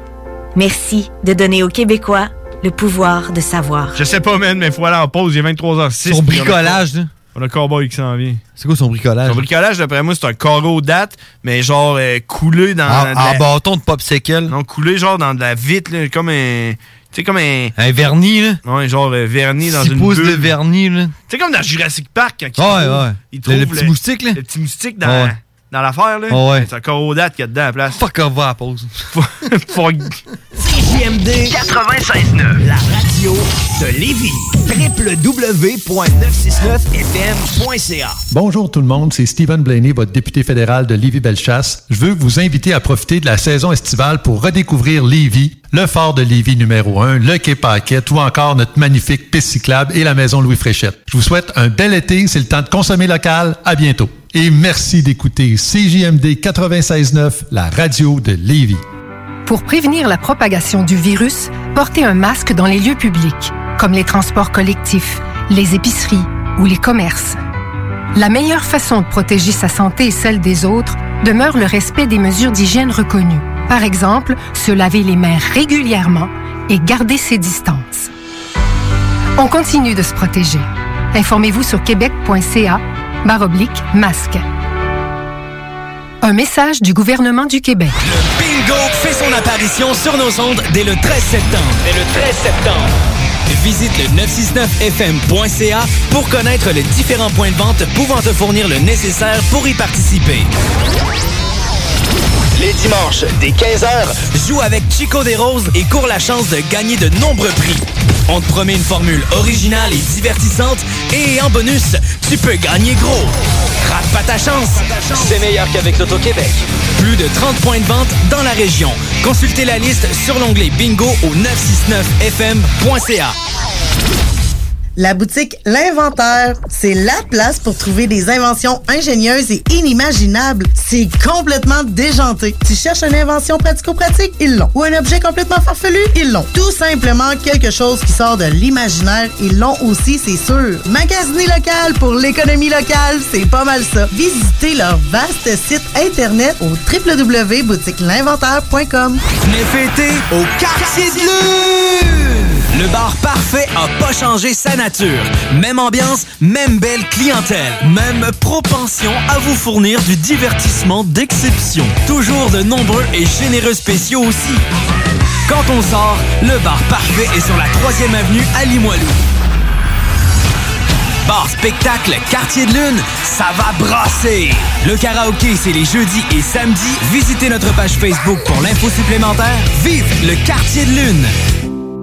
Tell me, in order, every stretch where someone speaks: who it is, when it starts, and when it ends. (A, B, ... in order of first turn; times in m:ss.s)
0:00.7-0:03.9 A
0:03.9-0:06.8 B
0:06.0-0:07.1 C
0:07.3-0:08.4 B
0:08.6-0:09.4 C
0:09.2-0:13.4 B
0:12.9-0:14.5 C
0:14.5-0:17.7 B
0:17.8-0:18.6 C
0:18.6-0:20.5 B
0:19.6-0:21.1 C
0:21.3-0:28.0 B
0:22.6-0:24.4 C
0:25.0-0:25.3 C
0:26.3-0:26.7 C
0:27.9-0:28.9 C
0:29.1-0:30.2 B
0:30.6-0:38.2 D
0:38.3-0:58.8 E
0:59.4-1:07.4 F
1:08.1-1:18.1 F
1:19.4-1:24.4 F
1:26.2-1:27.9 F
1:28.0-1:32.9 G
1:33.5-1:40.5 G
1:42.6-2:03.3 G
1:42.6-1:44.1 D
1:55.0-1:56.5 D
2:05.0-2:29.2 H
2:29.4-2:32.2 G
2:32.7-2:44.6 G
2:45.5-2:49.2 G
2:51.2-3:01.3 G